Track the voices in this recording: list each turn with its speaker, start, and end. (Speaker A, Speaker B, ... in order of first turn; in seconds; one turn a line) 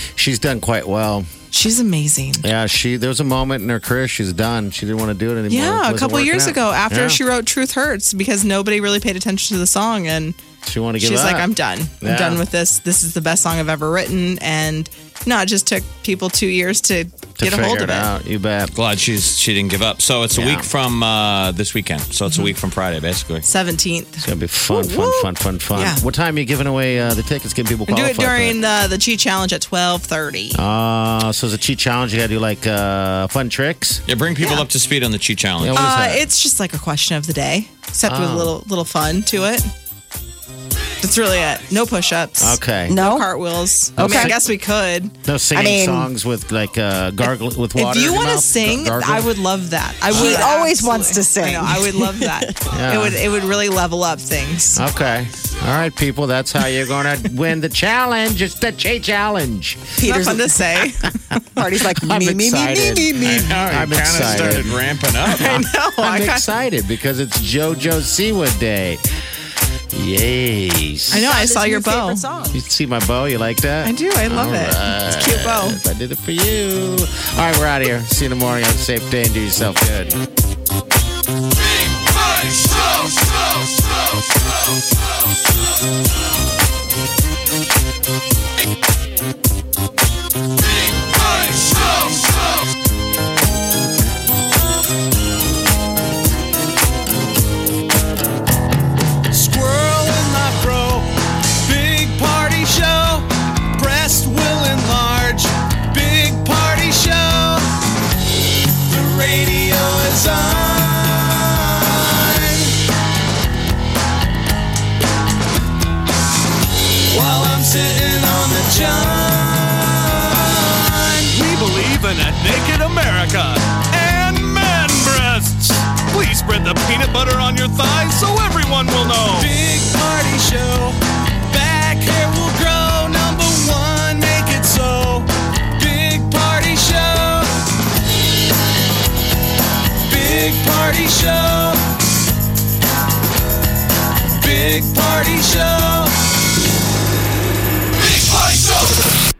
Speaker A: 0.2-1.3
Speaker B: 1.5-2.5
Speaker A: 2.4-7.2
Speaker B: 5.5-10.4
Speaker A: 10.6-12.4
Speaker B: 11.0-18.1
Speaker A: 17.4-18.7
Speaker C: 18.7-23.4
Speaker A: 20.3-20.7
Speaker B: 23.4-26.0
Speaker A: 24.2-28.6
Speaker B: 27.9-30.6
Speaker A: 30.5-34.0
Speaker C: 34.1-35.8
Speaker A: 35.6-36.2
Speaker B: 35.7-39.7
Speaker A: 38.0-38.5
Speaker B: 41.0-45.1
Speaker A: 42.4-43.0
Speaker D: 42.9-43.3
Speaker A: 44.0-44.4
Speaker D: 44.0-44.3
Speaker A: 45.2-49.3
Speaker D: 45.5-46.1
Speaker B: 47.8-54.8
Speaker D: 50.1-52.6
Speaker A: 52.7-53.2
Speaker A: 54.7-60.0
Speaker D: 60.0-60.5
Speaker B: 60.0-61.1
Speaker D: 61.6-63.5
Speaker A: 61.7-69.0
Speaker C: 63.2-65.5
Speaker B: 65.2-66.4
Speaker A: 69.9-71.3
Speaker B: 71.1-72.2
Speaker D: 71.1-72.6
Speaker A: 72.5-80.2
Speaker B: 73.8-75.8
Speaker E: 99.3-107.7
Speaker E: 108.9-112.7
Speaker E: 117.1-137.5
Speaker E: 140.1-141.8
Speaker E: 144.4-146.1